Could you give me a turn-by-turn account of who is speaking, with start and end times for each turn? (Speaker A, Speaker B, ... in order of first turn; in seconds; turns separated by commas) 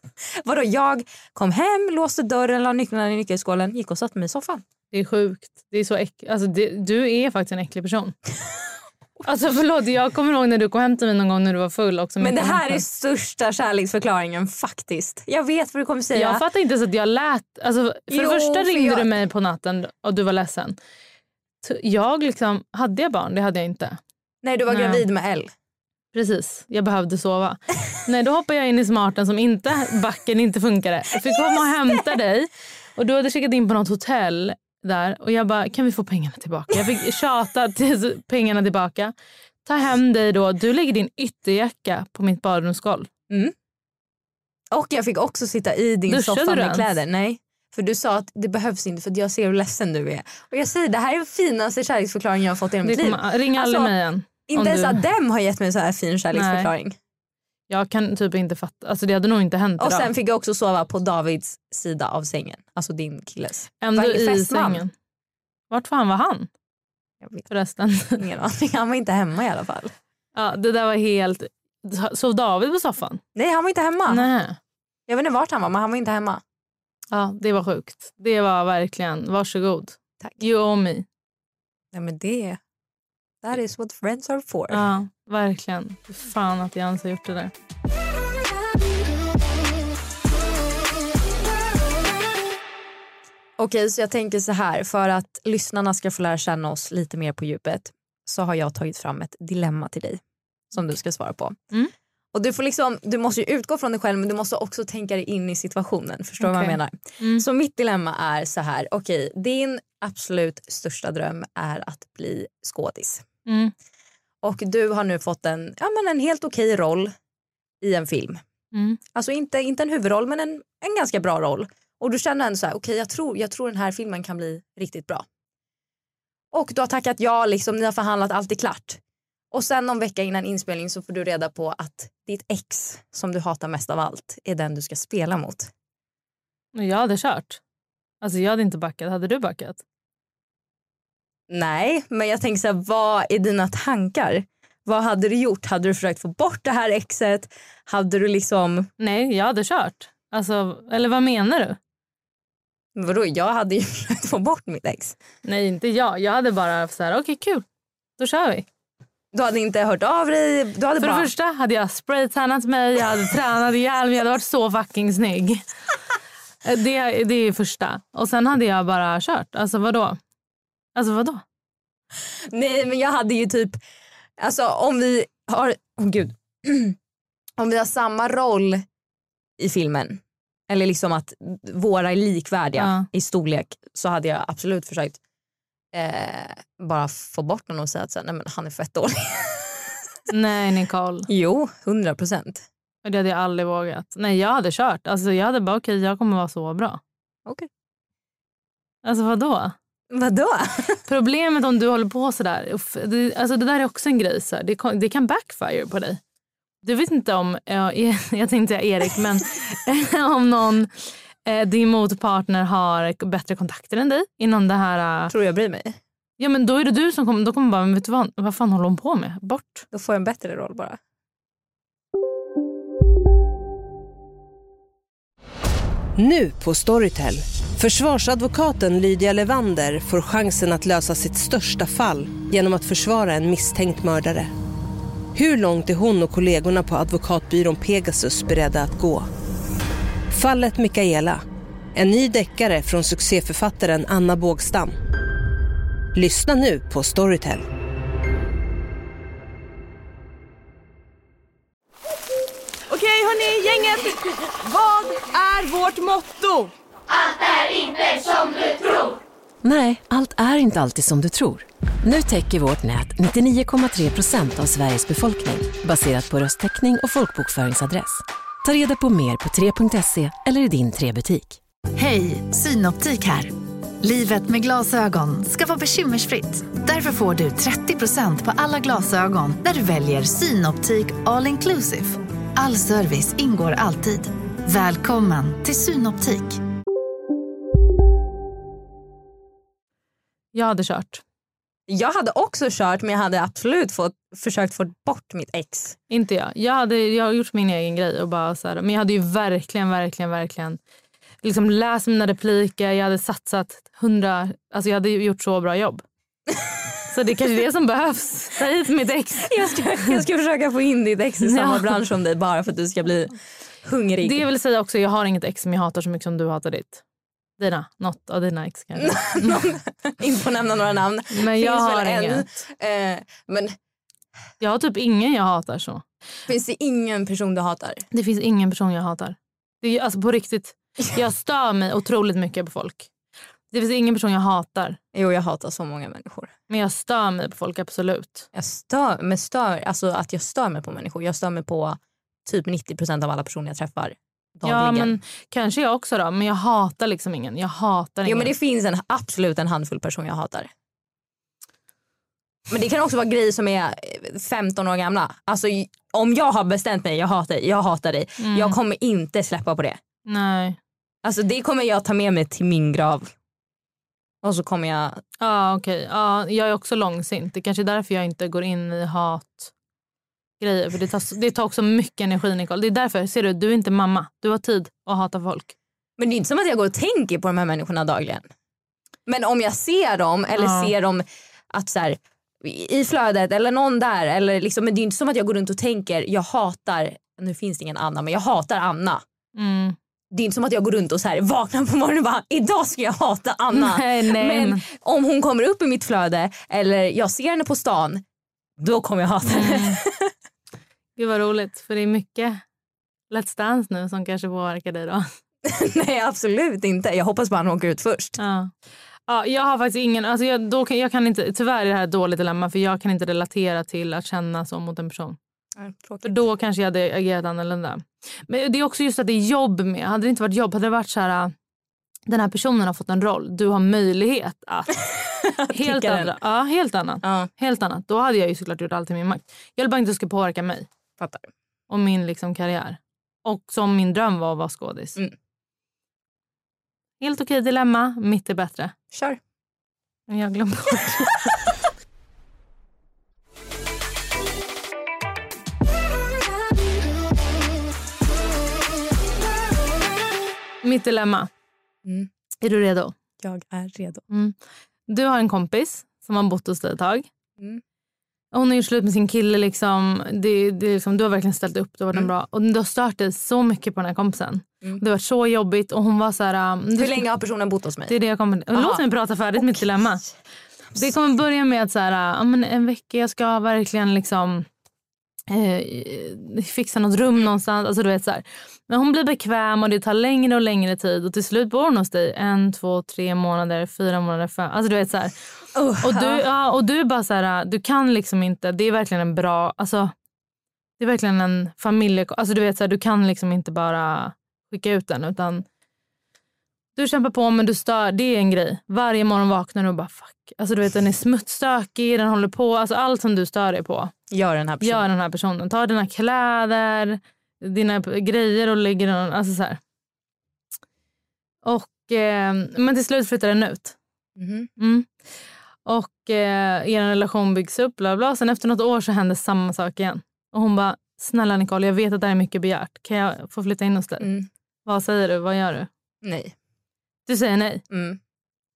Speaker A: 0.4-4.6, Speaker B: 4.9-8.1, Speaker B: 9.2-12.8, Speaker A: 12.2-16.4, Speaker B: 16.1-20.8, Speaker A: 18.1-19.1, Speaker B: 21.6-24.0, Speaker A: 24.4-25.5, Speaker B: 24.7-25.0, Speaker B: 26.1-39.1, Speaker B: 39.6-43.1, Speaker A: 44.7-53.9, Speaker B: 46.1-46.9, Speaker B: 52.8-55.0, Speaker A: 54.5-57.0, Speaker B: 56.3-56.7, Speaker B: 57.7-60.1, Speaker A: 59.8-64.8, Speaker B: 63.8-64.9, Speaker B: 65.7-66.5, Speaker A: 67.2-67.5, Speaker B: 67.5-68.2, Speaker A: 68.2-69.9, Speaker B: 70.3-73.2, Speaker A: 73.3-74.3, Speaker B: 74.1-74.6, Speaker A: 75.1-76.4, Speaker B: 77.1-81.0, Speaker A: 81.9-82.6, Speaker A: 83.4-84.8, Speaker B: 84.7-87.5, Speaker A: 93.6-100.2, Speaker A: 100.7-101.6, Speaker A: 102.3-113.2, Speaker B: 106.4-107.4, Speaker B: 113.5-113.7, Speaker A: 114.4-117.1, Speaker A: 117.8-118.4, Speaker B: 118.7-119.0, Speaker A: 119.1-125.2, Speaker A: 126.5-129.0, Speaker A: 129.5-135.7, Speaker B: 136.8-137.6, Speaker B: 138.2-139.8, Speaker A: 141.5-148.9, Speaker B: 149.0-151.8, Speaker A: 152.9-155.2, Speaker B: 155.4-157.6, Speaker B: 158.2-158.7, Speaker A: 159.3-161.3, Speaker B: 161.0-165.6, Speaker B: 166.6-170.2, Speaker B: 170.9-171.4, Speaker A: 172.5-173.8, Speaker A: 174.4-176.9, Speaker A: 177.6-178.8, Speaker A: 179.6-185.2, Speaker B: 182.8-183.1, Speaker A: 185.9-189.9, Speaker B: 190.3-191.3, Speaker A: 191.3-192.6, Speaker B: 193.0-197.0, Speaker B: 199.0-199.7, Speaker A: 200.1-201.0, Speaker B: 201.1-206.2, Speaker B: 206.8-215.3, Speaker A: 215.3-216.0, Speaker B: 216.4-219.8, Speaker A: 219.9-221.0, Speaker C: 226.2-234.5, Speaker C: 235.3-239.3, Speaker C: 240.3-241.4, Speaker C: 241.9-244.9, Speaker C: 246.1-247.7, Speaker D: 252.9-256.7, Speaker E: 259.6-271.6, Speaker F: 271.9-286.6, Speaker B: 290.5-291.2, Speaker A: 291.9-296.0, Speaker B: 296.1-300.8, Speaker B: 301.4-306.0, Speaker B: 307.1-310.2, Speaker A: 309.4-314.4, Speaker B: 311.4-312.0, Speaker B: 314.2-317.0, Speaker B: 317.6-319.6, Speaker A: 319.0-323.7, Speaker B: 321.3-322.4, Speaker B: 324.6-326.0, Speaker A: 326.5-328.1, Speaker B: 328.1-333.1, Speaker B: 333.7-335.0, Speaker A: 335.1-336.5, Speaker B: 336.7-338.5, Speaker A: 338.5-345.2, Speaker B: 344.6-348.5, Speaker A: 348.2-350.7, Speaker A: 352.7-360.0, Speaker B: 358.4-358.8, Speaker B: 360.3-360.8, Speaker A: 361.2-363.3, Speaker A: 364.4-365.2, Speaker B: 365.4-369.7, Speaker B: 370.6-375.7, Speaker A: 376.2-378.4, Speaker A: 379.3-389.2, Speaker B: 380.5-380.9, Speaker B: 389.6-389.9, Speaker A: 390.3-398.2, Speaker B: 393.7-394.8, Speaker A: 398.8-400.3, Speaker B: 399.4-400.0, Speaker B: 401.2-402.6, Speaker B: 403.3-405.3, Speaker A: 405.6-408.4, Speaker B: 408.4-408.7, Speaker B: 409.3-415.4, Speaker A: 415.8-416.4, Speaker B: 416.2-421.5, Speaker B: 422.3-425.0, Speaker A: 425.1-426.4, Speaker B: 425.7-430.9, Speaker A: 427.2-427.5, Speaker A: 431.2-431.5, Speaker B: 431.9-435.2, Speaker B: 437.2-438.9, Speaker A: 439.1-439.4, Speaker B: 440.3-441.6, Speaker B: 450.8-451.5, Speaker A: 452.0-452.3, Speaker B: 452.6-453.1, Speaker A: 453.4-454.2, Speaker B: 454.3-454.6, Speaker B: 455.1-457.3, Speaker B: 458.5-467.2, Speaker A: 466.9-468.1, Speaker B: 468.1-470.2, Speaker A: 468.7-469.0, Speaker A: 469.6-470.3, Speaker B: 470.9-474.6, Speaker B: 475.5-485.3, Speaker A: 485.7-486.4, Speaker B: 486.0-490.1, Speaker B: 491.0-495.6, Speaker B: 496.9-504.1, Speaker A: 504.3-505.1, Speaker B: 504.8-509.8, Speaker B: 511.6-514.0, Speaker A: 514.4-514.7, Speaker B: 514.8-515.1, Speaker B: 515.9-524.3, Speaker A: 524.2-524.5, Speaker B: 524.9-525.9, Speaker A: 526.2-526.5, Speaker B: 527.3-527.8, Speaker A: 527.9-528.2